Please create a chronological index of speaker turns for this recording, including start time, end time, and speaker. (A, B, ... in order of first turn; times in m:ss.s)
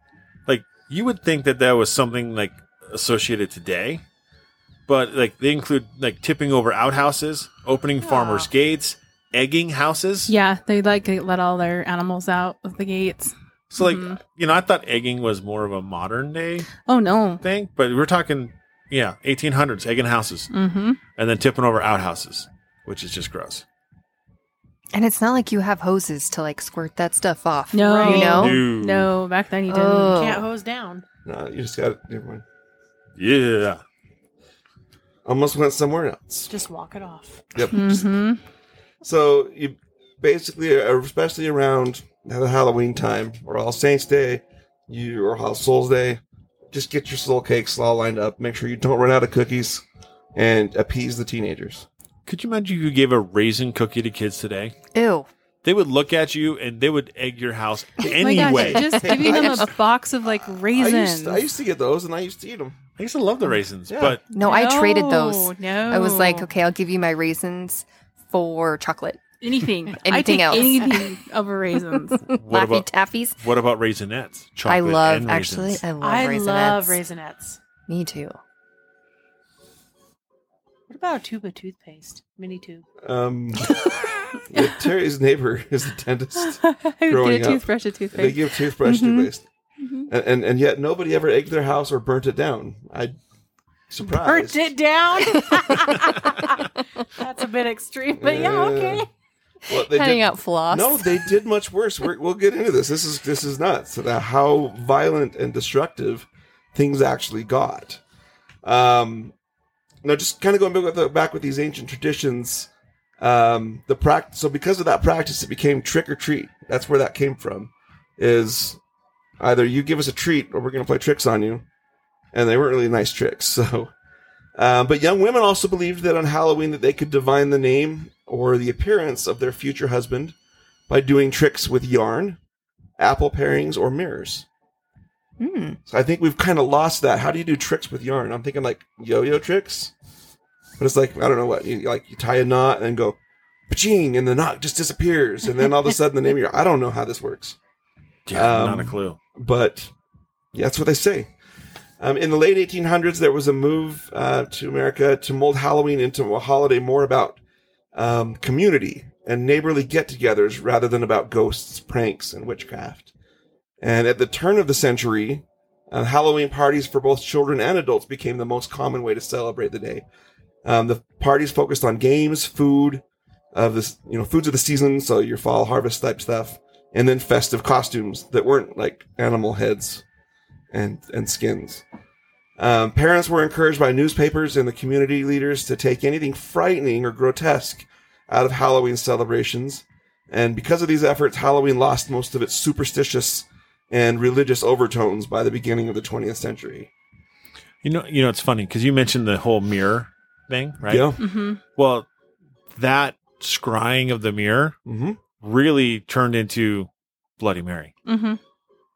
0:00.5-0:04.0 A
0:04.9-0:10.3 A
0:08.0-0:08.5 B
0:10.3-0:14.2 C
0:13.7-0:16.7 A
0:16.8-0:17.4 C
0:17.4-0:20.5 A
0:20.5-0:21.0 C
0:21.2-0:23.6 A
0:24.9-0:28.6 D
0:27.7-0:30.2 C
0:27.8-0:28.5 B
0:28.2-0:29.1 A
0:29.7-0:30.5 D
0:30.1-0:31.0 B
0:31.2-0:32.4 E
0:33.2-0:33.8 A
0:35.2-0:36.5 E
0:36.5-0:37.4 B
0:37.5-0:38.0 E
0:37.7-0:38.4 C
0:39.0-0:46.2 E
0:46.7-0:49.8 E
0:50.3-0:51.9 E
0:52.2-0:54.7 A
0:54.9-0:55.3 D
0:55.6-0:59.1 A
0:58.2-0:59.7 E
0:58.2-1:01.4 C
0:58.7-0:59.6 D
1:00.7-1:02.8 E
1:03.0-1:04.2 A
1:03.9-1:04.2 E
1:04.3-1:09.2 D
1:04.4-1:06.5 C
1:09.4-1:12.2 C
1:10.0-1:11.1 D
1:12.3-1:13.4 D
1:12.3-1:15.8 A
1:14.6-1:17.0 D
1:16.0-1:17.6 B
1:17.9-1:18.4 D
1:20.9-1:22.8 B
1:23.0-1:23.8 E
1:24.5-1:29.4 E
1:26.4-1:29.3 C
1:29.8-1:30.1 C
1:30.1-1:33.1 E
1:33.9-1:34.7 E
1:34.0-1:36.6 B
1:37.2-1:39.1 B
1:38.2-1:39.0 E
1:39.7-1:48.0 E
1:39.8-1:41.3 D
1:48.6-1:49.3 E
1:50.0-1:58.8 E
1:59.4-2:01.6 E
2:02.3-2:03.9 E
2:04.6-2:10.3 E
2:10.9-2:12.4 E
2:13.0-2:14.4 E
2:15.4-2:15.8 D
2:15.9-2:19.9 E
2:20.8-2:23.2 E
2:23.7-2:27.6 E
2:28.2-2:29.2 A
2:28.3-2:29.9 E
2:30.5-2:31.3 E
2:32.0-2:37.4 E
2:37.9-2:43.1 E
2:43.8-2:50.0 E
2:50.6-3:00.0 E
3:00.7-3:01.8 E
3:02.6-3:16.9 E
3:17.8-3:21.2 A
3:20.8-3:21.2 E
3:21.2-3:21.6 C
3:21.7-3:22.1 A
3:22.7-3:24.8 A
3:24.8-3:25.2 E
3:25.4-3:26.9 A
3:27.4-3:27.9 A
3:28.0-3:28.4 C